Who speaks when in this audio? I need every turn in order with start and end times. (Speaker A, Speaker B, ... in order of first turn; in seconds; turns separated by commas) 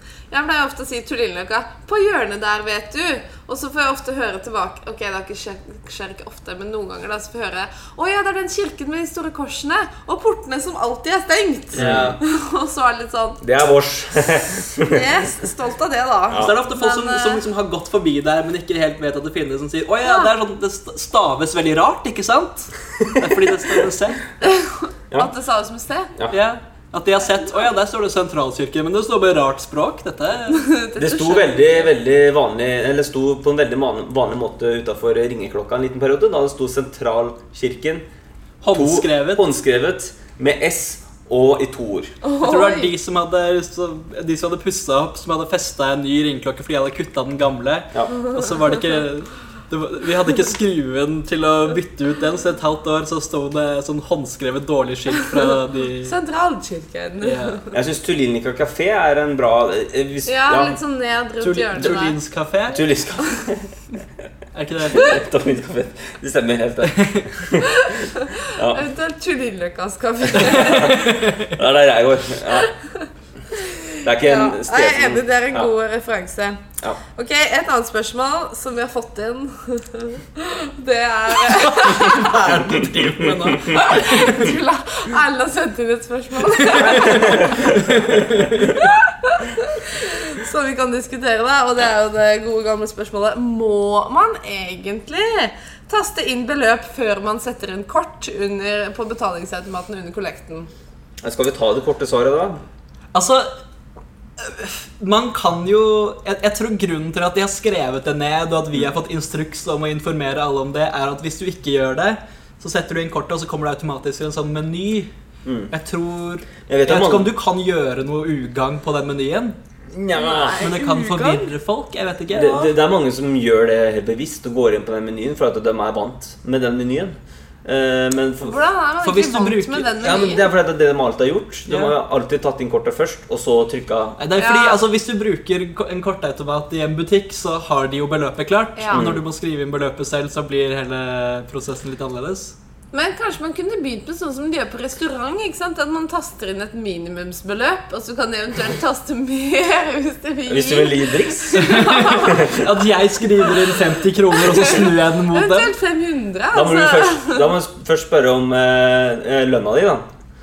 Speaker A: 0.3-13.4, Speaker B: 11.7-12.2, Speaker C: 11.8-12.2, Speaker C: 13.4-15.1, Speaker A: 14.9-17.4, Speaker B: 16.4-24.2, Speaker A: 20.0-20.3, Speaker A: 24.4-26.1, Speaker B: 26.3-30.6, Speaker A: 27.3-27.7, Speaker A: 30.5-31.9, Speaker C: 31.0-38.0, Speaker B: 38.6-39.5, Speaker C: 38.7-42.1, Speaker A: 42.2-42.9, Speaker B: 42.4-56.1, Speaker A: 56.0-57.7, Speaker B: 57.2-57.6, Speaker C: 57.7-60.8, Speaker A: 60.2-62.2, Speaker B: 61.4-62.9, Speaker C: 62.7-63.7, Speaker B: 64.5-65.1, Speaker C: 64.9-68.8, Speaker B: 66.8-67.3, Speaker A: 67.6-71.0, Speaker C: 70.3-72.7, Speaker B: 70.4-71.5, Speaker A: 73.5-76.6, Speaker C: 74.0-75.7, Speaker A: 77.1-82.5, Speaker B: 81.5-84.5, Speaker C: 82.3-83.9, Speaker A: 83.7-88.1, Speaker B: 86.6-88.9, Speaker C: 86.9-87.9, Speaker A: 88.6-100.7, Speaker C: 101.2-102.6, Speaker B: 103.1-103.5, Speaker B: 104.4-115.1, Speaker C: 115.4-115.7, Speaker B: 115.7-119.6, Speaker C: 116.7-117.3, Speaker C: 119.9-120.7, Speaker A: 120.1-121.5, Speaker B: 120.6-122.7, Speaker C: 122.3-128.6, Speaker A: 128.4-130.4, Speaker B: 129.0-129.9, Speaker C: 130.0-134.2, Speaker B: 131.7-131.9, Speaker B: 134.2-142.5, Speaker A: 134.4-134.8, Speaker A: 138.8-139.1, Speaker C: 138.9-139.2, Speaker A: 142.9-152.5, Speaker C: 150.5-152.6, Speaker B: 151.6-155.7, Speaker A: 153.4-157.5, Speaker C: 156.5-160.0